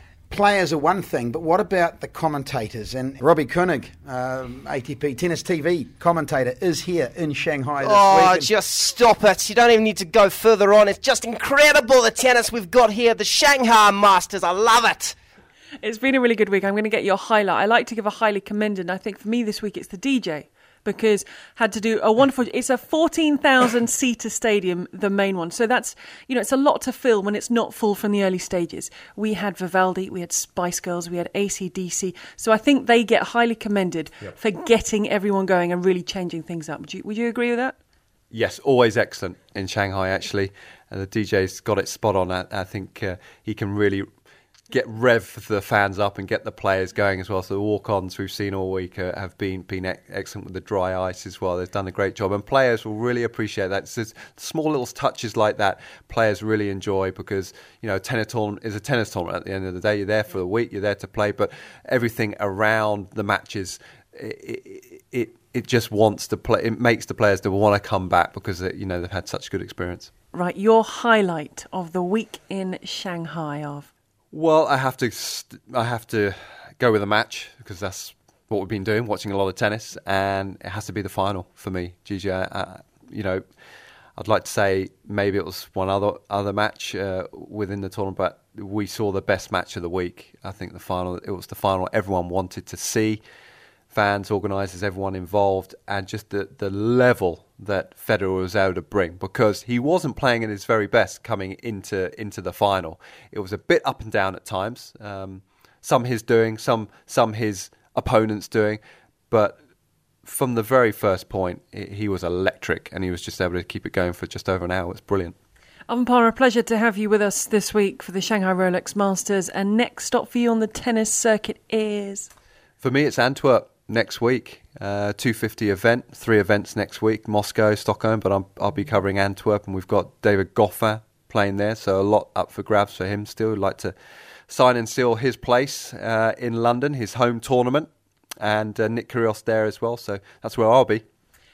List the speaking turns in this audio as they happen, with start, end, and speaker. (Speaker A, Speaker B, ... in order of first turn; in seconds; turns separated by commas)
Speaker A: 0.3-8.5, Speaker B: 7.8-15.2, Speaker C: 15.8-37.8, Speaker D: 38.3-44.1, Speaker D: 44.7-70.1, Speaker C: 70.3-73.9, Speaker D: 74.3-83.4, Speaker D: 84.2-93.2, Speaker D: 93.9-109.6, Speaker D: 110.2-115.4, Speaker C: 115.9-122.3, Speaker D: 122.8-133.9, Speaker D: 134.5-141.0